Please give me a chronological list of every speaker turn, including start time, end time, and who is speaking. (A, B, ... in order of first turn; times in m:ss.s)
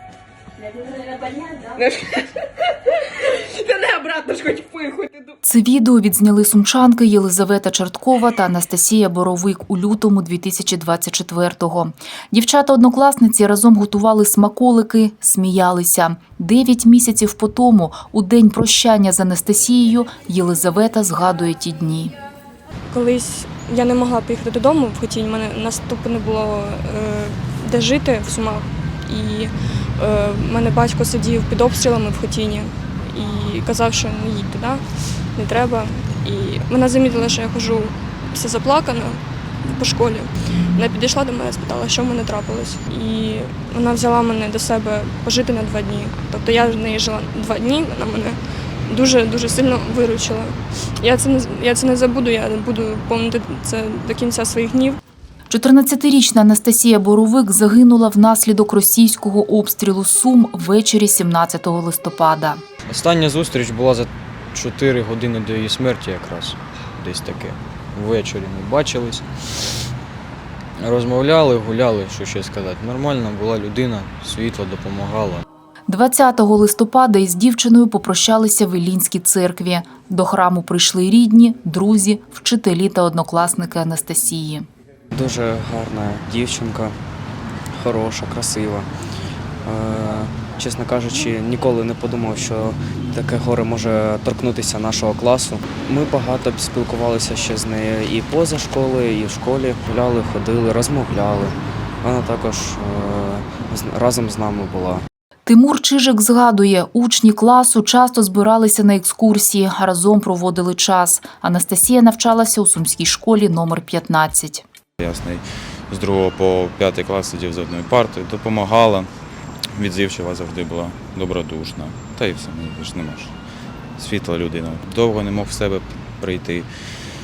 0:00.8-0:02.1 A
0:03.6-0:05.2 A
0:05.4-0:22.1 B
0:22.9-0:55.0 C
0:55.5-1:02.6 B
1:02.9-1:09.8 D
1:10.8-1:15.4 D
1:15.9-1:24.7 B
1:25.1-1:26.9 E
1:27.8-1:28.9 E
1:29.6-1:45.0 E
1:45.4-1:54.6 B
1:55.0-1:59.1 F
1:59.8-2:03.3 F
2:04.0-2:06.7 F